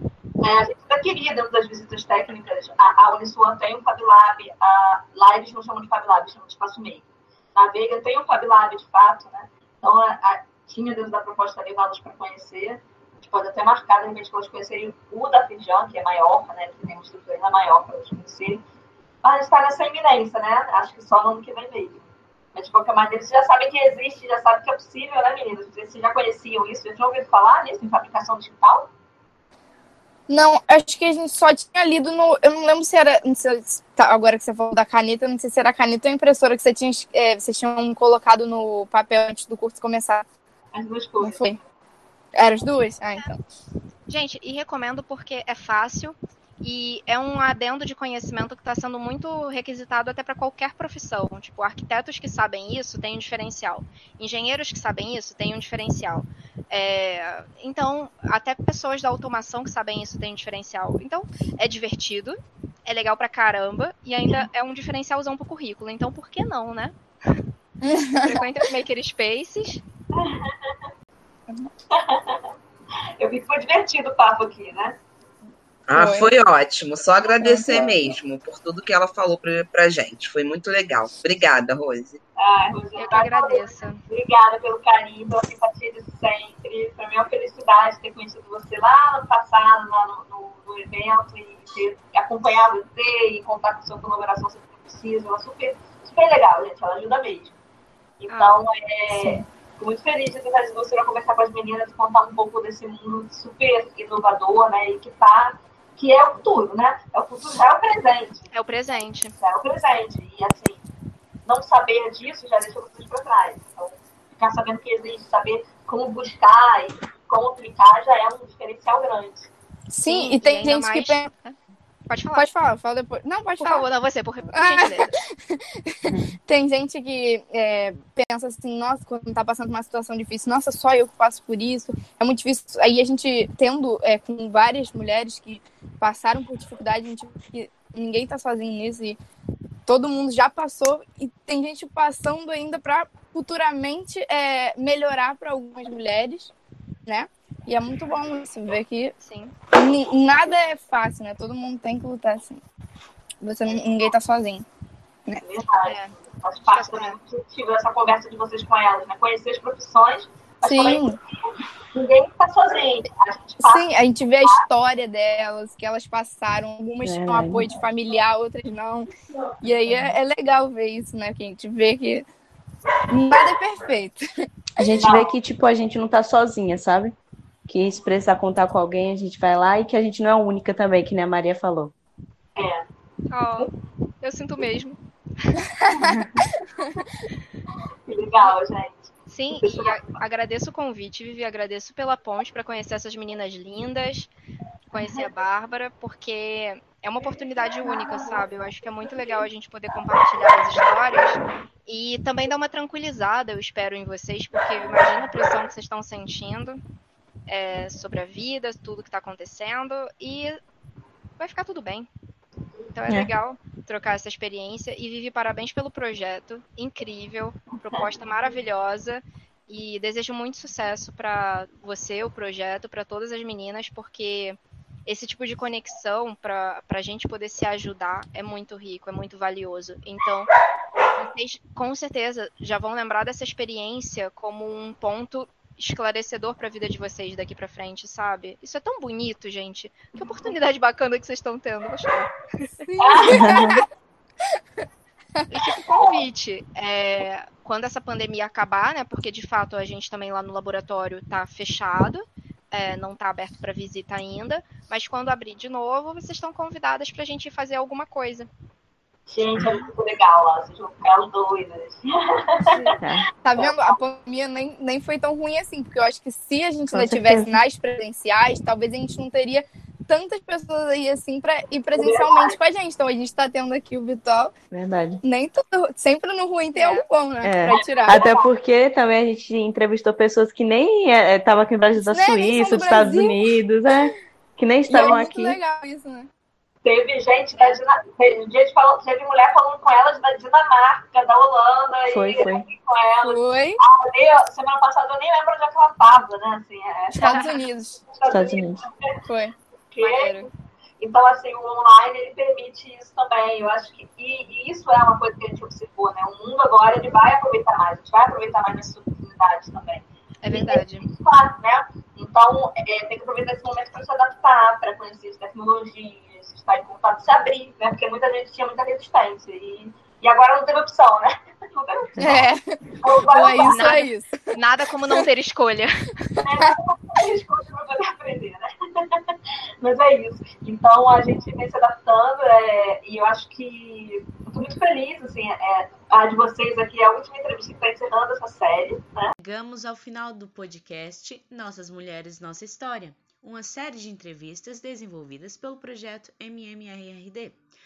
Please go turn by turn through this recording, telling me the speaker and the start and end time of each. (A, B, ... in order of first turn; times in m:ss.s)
0:00.4-0:18.6 A
0:19.2-0:28.9 A
0:30.3-0:40.2 B
0:40.7-0:41.4 A
0:41.2-0:41.6 B
0:42.3-0:43.4 B
0:44.1-1:07.4 C
1:07.8-1:08.4 B
1:08.2-1:09.8 C
1:10.2-1:10.7 A
1:11.9-1:12.4 A
1:13.2-1:15.0 A
1:15.9-1:22.2 D
1:15.9-1:16.3 B
1:17.4-1:17.7 B
1:22.4-1:37.6 A
1:23.0-1:24.0 C
1:38.2-1:48.5 A
1:38.3-1:38.6 C
1:48.5-1:49.3 C
1:49.4-1:50.8 A
1:51.4-1:59.5 A
1:59.9-2:01.3 B
2:00.0-2:01.6 C
2:02.1-2:02.5 C
2:02.3-2:03.8 B
2:03.6-2:05.2 C
2:04.5-2:19.2 B
2:19.9-2:26.5 B
2:27.1-2:29.1 B
2:29.2-2:29.5 C
2:29.7-2:32.6 B
2:33.4-2:34.6 B
2:35.4-2:41.0 A
2:35.8-2:36.1 C
2:36.7-2:37.2 C
2:40.6-2:41.2 B
2:41.9-2:43.9 A
2:43.6-2:49.1 B
2:47.0-2:47.7 E
2:49.6-2:52.2 B
2:53.1-2:54.2 B
2:54.8-2:57.2 E
2:54.9-2:55.3 A
2:57.7-3:01.9 E
3:02.6-3:02.8 A
3:03.3-3:03.7 C
3:04.2-3:05.6 C
3:06.0-3:06.3 E
3:08.1-3:10.2 A
3:09.3-3:14.3 C
3:14.9-3:26.8 C
3:14.9-3:15.2 A
3:27.5-3:30.6 C
3:31.4-3:32.1 C
3:32.9-3:50.5 C
3:51.2-4:02.7 C
4:02.8-4:03.8 B
4:03.0-4:03.5 A
4:03.3-4:03.8 E
4:05.5-4:18.5 C
4:05.9-4:06.2 A
4:19.3-4:22.9 A
4:23.0-4:23.3 E
4:23.4-4:34.5 B
4:23.6-4:24.0 A
4:26.9-4:27.6 E
4:31.9-4:32.6 A
4:34.7-4:35.2 E
4:35.2-4:38.3 B
4:36.8-4:37.0 C
4:37.4-4:45.6 E
4:37.7-4:38.5 A
4:42.1-4:43.4 B
4:44.9-4:46.3 B
4:46.8-4:57.5 A
4:52.1-4:52.7 E
4:53.2-4:53.8 B
4:57.1-4:58.0 B
4:57.2-4:57.5 C
4:58.1-4:59.0 A
4:58.3-4:58.8 E
4:59.2-4:59.5 B
4:59.9-5:22.2 A
5:00.0-5:00.5 C
5:10.4-5:11.0 C
5:22.2-5:24.4 B
5:23.0-5:24.0 A
5:23.6-5:26.1 C
5:26.4-5:28.7 A
5:29.8-5:39.3 A
5:39.4-5:47.6 F